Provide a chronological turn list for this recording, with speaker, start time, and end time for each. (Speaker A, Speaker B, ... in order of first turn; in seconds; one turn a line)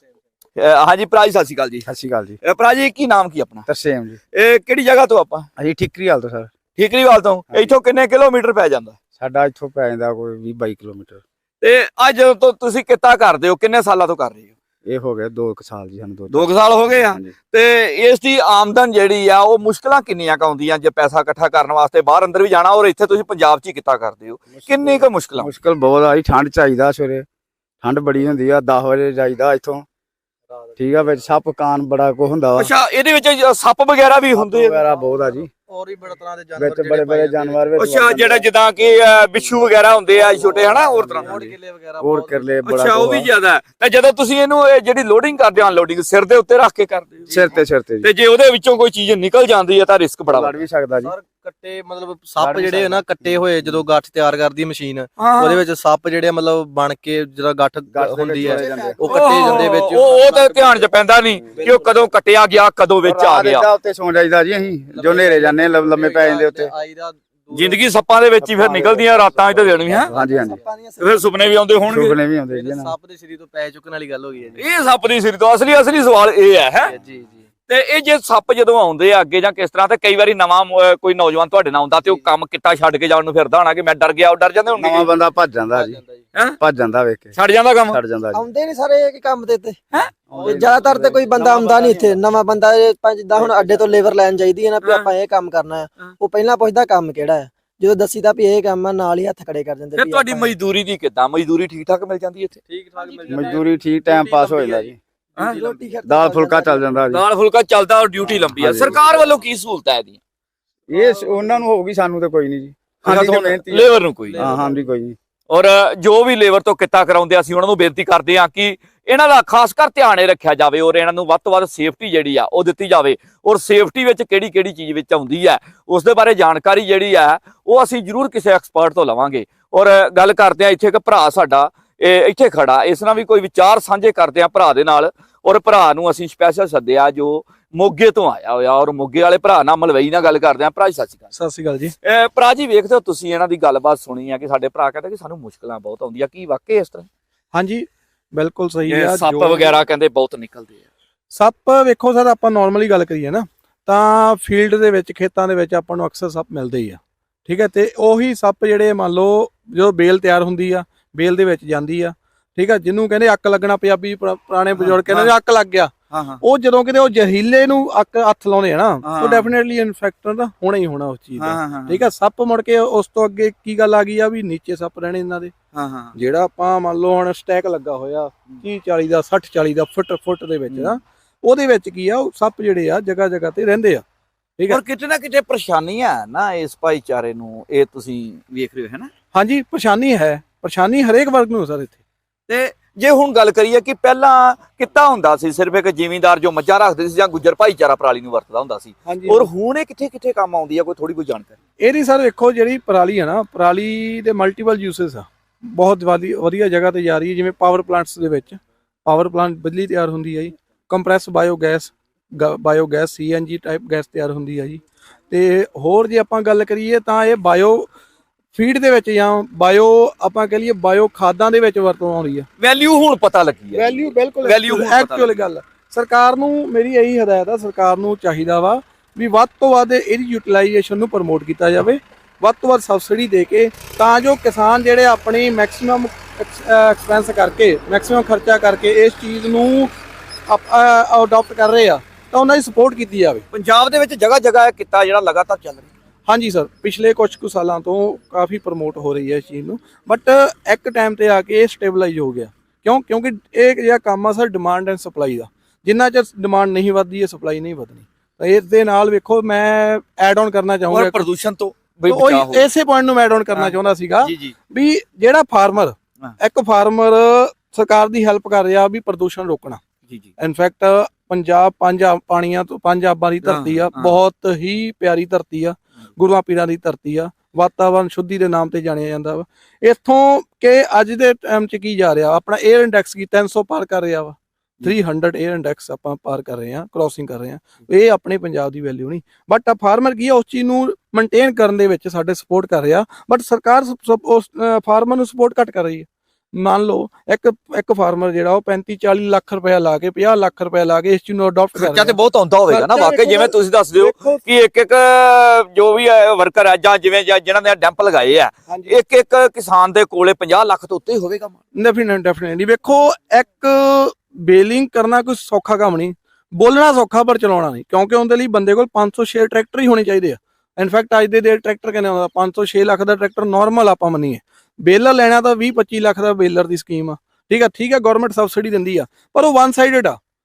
Speaker A: 0.6-1.9
Speaker B: 1.9-2.4
Speaker A: 2.4-3.7
Speaker B: 3.6-4.2
Speaker A: 4.3-5.5
Speaker B: 5.6-6.5
Speaker A: 6.8-8.9
Speaker B: 9.2-11.2
Speaker A: 11.6-14.5
Speaker B: 14.8-17.3
Speaker A: 16.3-25.5
Speaker B: 24.5-27.2
Speaker B: 27.8-29.8
Speaker B: 30.8-32.7
Speaker A: 32.5-34.8
Speaker B: 34.3-35.5
Speaker C: 34.7-38.1
Speaker B: 36.6-38.5
Speaker A: 37.8-41.3
Speaker C: 40.1-42.4
Speaker B: 40.5-43.3
Speaker A: 42.6-47.3
Speaker C: 47.2-47.6
Speaker B: 47.3-48.1
Speaker A: 48.0-50.6
Speaker B: 50.3-51.1
Speaker C: 51.0-60.9
Speaker B: 52.4-53.8
Speaker A: 55.2-55.6
Speaker B: 57.9-60.0
Speaker A: 59.0-63.6
Speaker C: 61.6-62.1
Speaker B: 63.0-66.7
Speaker C: 64.9-67.8
Speaker A: 67.5-70.1
Speaker C: 68.5-70.6
Speaker B: 68.6-69.0
Speaker B: 69.8-70.6
Speaker D: 70.0-71.5
Speaker A: 71.0-72.2
Speaker C: 71.7-74.6
Speaker B: 71.9-72.9
Speaker A: 74.5-76.9
Speaker C: 76.8-77.4
Speaker A: 77.7-85.1
Speaker B: 84.8-86.0
Speaker C: 85.7-86.0
Speaker B: 86.6-87.4
Speaker A: 87.3-88.0
Speaker B: 87.9-88.4
Speaker D: 88.3-89.8
Speaker B: 90.2-91.4
Speaker C: 90.3-92.5
Speaker D: 90.4-100.5
Speaker A: 99.9-102.6
Speaker C: 102.7-105.9
Speaker B: 103.3-105.0
Speaker D: 105.4-107.0
Speaker B: 106.0-107.2
Speaker A: 107.1-110.2
Speaker B: 108.2-109.0
Speaker C: 109.1-109.4
Speaker B: 110.9-115.2
Speaker C: 110.9-111.6
Speaker A: 113.0-114.5
Speaker C: 114.3-114.9
Speaker A: 115.5-141.3
Speaker E: 141.3-141.9
Speaker A: 142.0-147.1
Speaker E: 147.5-149.8
Speaker A: 148.9-150.8
Speaker E: 151.3-175.5
Speaker A: 164.8-165.3
Speaker A: 166.1-166.4
Speaker A: 169.0-169.5
Speaker A: 171.4-172.1
Speaker A: 175.7-176.2
Speaker E: 176.2-184.0
Speaker A: 180.7-180.9
Speaker A: 184.7-189.1
Speaker E: 189.3-192.0
Speaker A: 192.5-201.5
Speaker E: 199.0-199.5
Speaker E: 201.8-217.9
Speaker E: 218.5-222.4
Speaker A: 222.6-225.3
Speaker E: 223.7-239.9
Speaker E: 240.5-243.4
Speaker A: 243.5-245.9
Speaker E: 246.3-261.2
Speaker A: 260.9-262.7
Speaker E: 262.1-269.8
Speaker A: 263.5-264.5
Speaker E: 270.4-302.1
Speaker A: 273.4-274.1
Speaker A: 301.8-311.6
Speaker E: 302.7-304.4
Speaker E: 308.7-309.0
Speaker E: 311.8-330.2